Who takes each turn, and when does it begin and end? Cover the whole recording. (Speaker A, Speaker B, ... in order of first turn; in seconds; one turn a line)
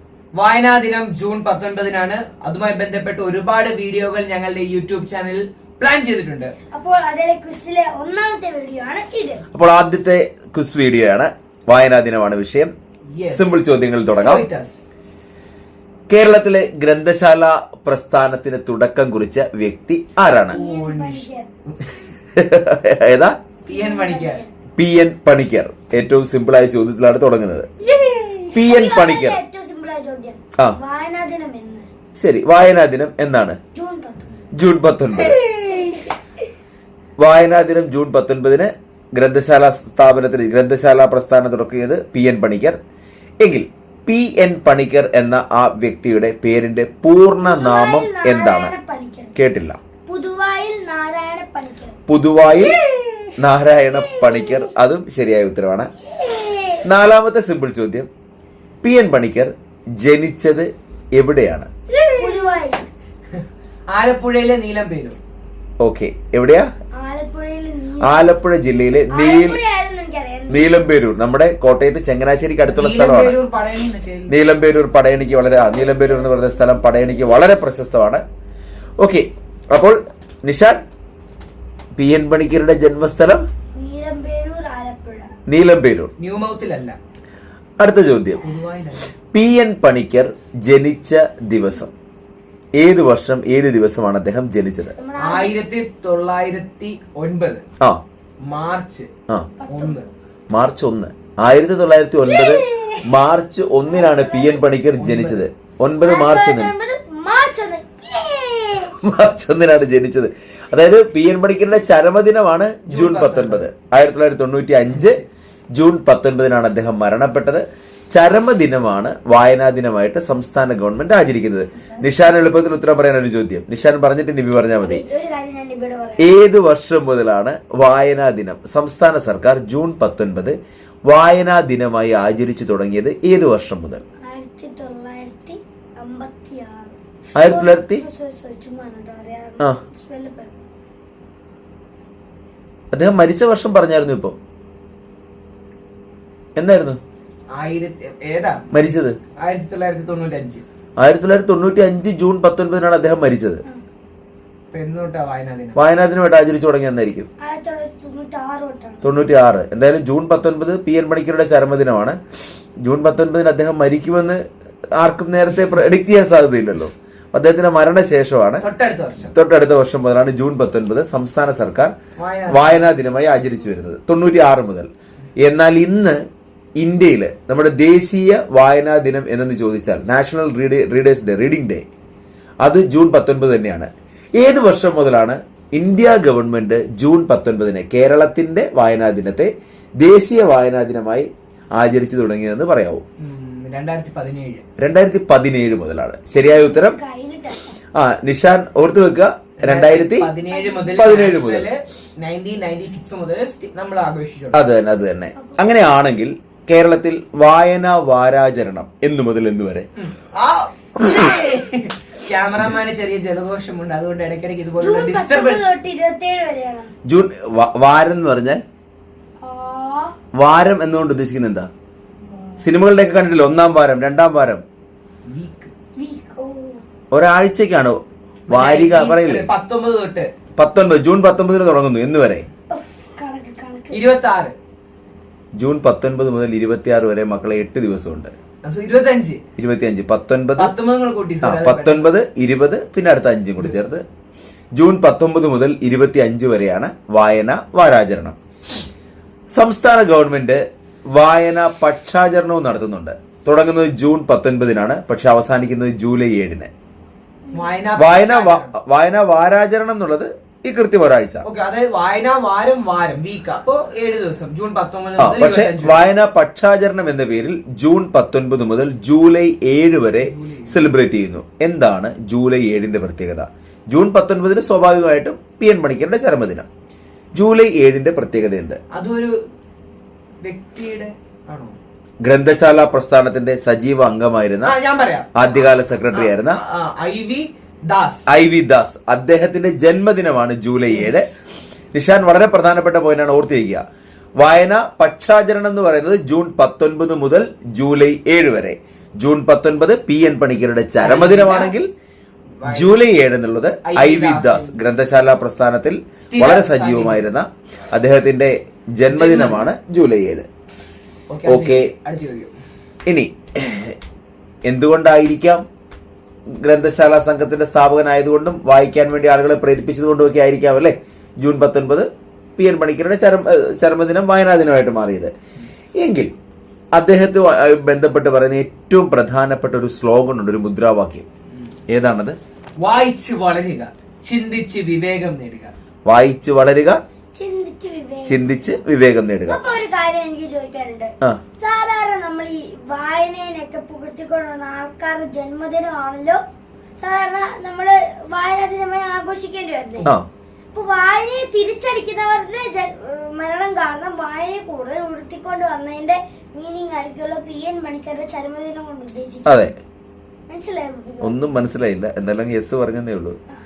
Speaker A: 0.3-6.5
Speaker B: 6.7-9.4
Speaker C: 9.5-12.7
Speaker A: 13.1-13.6
Speaker C: 13.2-14.4
Speaker A: 14.1-14.8
Speaker C: 16.1-20.6
Speaker A: 20.5-22.0
Speaker B: 20.5-21.5
Speaker C: 22.3-23.3
Speaker B: 23.6-24.5
Speaker A: 23.7-24.4
Speaker C: 24.8-27.7
Speaker B: 27.8-31.9
Speaker C: 28.5-29.4
Speaker C: 32.1-33.6
Speaker B: 33.7-34.2
Speaker C: 34.5-35.4
Speaker B: 35.4-36.1
Speaker C: 37.2-42.8
Speaker C: 43.4-48.7
Speaker B: 47.4-49.3
Speaker C: 49.3-49.8
Speaker B: 50.0-52.0
Speaker C: 52.1-52.8
Speaker B: 52.5-53.3
Speaker C: 53.4-55.9
Speaker B: 53.9-54.7
Speaker B: 56.0-56.9
Speaker C: 56.8-58.1
Speaker C: 58.8-61.7
Speaker A: 61.9-62.5
Speaker B: 62.1-62.9
Speaker A: 63.9-65.2
Speaker C: 65.8-66.7
Speaker B: 67.0-68.3
Speaker C: 68.0-69.6
Speaker B: 69.1-70.8
Speaker C: 70.5-73.4
Speaker A: 72.7-74.3
Speaker C: 74.3-78.2
Speaker C: 79.0-80.8
Speaker C: 82.0-83.4
Speaker B: 83.7-85.3
Speaker C: 85.5-86.1
Speaker A: 86.2-87.0
Speaker C: 87.8-88.4
Speaker A: 88.4-89.1
Speaker C: 89.3-91.9
Speaker C: 92.8-94.9
Speaker B: 94.9-95.6
Speaker A: 95.2-97.6
Speaker A: 98.4-99.1
Speaker B: 99.6-100.0
Speaker A: 99.7-100.1
Speaker C: 100.5-106.7
Speaker B: 102.2-103.1
Speaker B: 103.8-104.6
Speaker A: 105.0-105.4
Speaker B: 106.0-108.9
Speaker C: 108.8-115.2
Speaker A: 112.9-113.7
Speaker A: 114.9-115.3
Speaker C: 115.7-125.0
Speaker B: 124.8-126.3
Speaker C: 126.2-130.6
Speaker C: 131.1-134.0
Speaker B: 134.2-140.6
Speaker C: 137.3-138.0
Speaker C: 142.9-144.3
Speaker C: 146.6-147.0
Speaker A: 147.5-148.6
Speaker C: 148.7-149.2
Speaker A: 149.3-150.6
Speaker C: 151.0-153.6
Speaker A: 154.7-155.8
Speaker C: 155.7-157.3
Speaker B: 157.4-159.1
Speaker C: 159.0-162.2
Speaker C: 162.8-164.4
Speaker C: 165.0-168.6
Speaker A: 168.6-169.3
Speaker C: 169.3-171.9
Speaker A: 172.2-172.9
Speaker C: 172.5-174.9
Speaker C: 175.4-176.2
Speaker C: 176.8-181.8
Speaker C: 182.6-193.0
Speaker A: 193.2-194.6
Speaker C: 194.8-197.0
Speaker B: 196.4-197.7
Speaker C: 197.9-200.3
Speaker A: 199.6-204.6
Speaker B: 200.5-201.1
Speaker C: 200.9-201.7
Speaker C: 204.5-209.9
Speaker B: 205.3-205.7
Speaker A: 210.0-215.7
Speaker B: 214.8-216.9
Speaker C: 217.1-218.6
Speaker B: 219.4-220.1
Speaker C: 220.3-221.7
Speaker C: 222.6-224.6
Speaker A: 225.2-225.7
Speaker B: 226.0-226.8
Speaker C: 227.1-228.0
Speaker C: 228.5-229.5
Speaker A: 228.5-230.3
Speaker C: 230.6-232.4
Speaker B: 232.7-234.0
Speaker A: 233.9-234.5
Speaker C: 235.6-238.3
Speaker A: 238.6-239.4
Speaker C: 239.6-240.7
Speaker A: 240.6-242.1
Speaker C: 241.4-244.0
Speaker C: 244.7-248.4
Speaker C: 249.5-256.7
Speaker B: 257.5-257.7
Speaker A: 257.5-258.7
Speaker C: 257.9-261.4
Speaker A: 261.4-266.1
Speaker C: 265.2-276.7
Speaker A: 270.1-270.9
Speaker C: 277.3-278.8
Speaker A: 278.9-279.4
Speaker A: 280.4-281.8
Speaker C: 282.2-284.8
Speaker A: 284.6-288.2
Speaker C: 285.3-286.6
Speaker C: 288.3-291.3
Speaker A: 290.9-291.3
Speaker C: 291.9-293.8
Speaker C: 294.4-301.9
Speaker A: 301.0-301.8
Speaker A: 302.6-303.0
Speaker C: 302.6-310.5
Speaker A: 303.8-304.8
Speaker A: 306.2-307.2
Speaker A: 309.1-309.7
Speaker A: 311.3-312.5
Speaker C: 311.4-311.9
Speaker C: 313.1-314.0
Speaker C: 314.6-315.6
Speaker C: 316.6-325.3
Speaker C: 326.0-326.3
Speaker C: 326.9-331.2
Speaker C: 331.9-332.4
Speaker A: 332.8-335.7
Speaker C: 336.1-337.0
Speaker B: 337.3-338.8
Speaker C: 338.2-339.6
Speaker B: 339.5-346.4
Speaker B: 347.0-350.1
Speaker B: 350.7-359.7
Speaker C: 359.4-359.7
Speaker B: 360.5-361.5
Speaker C: 361.2-363.4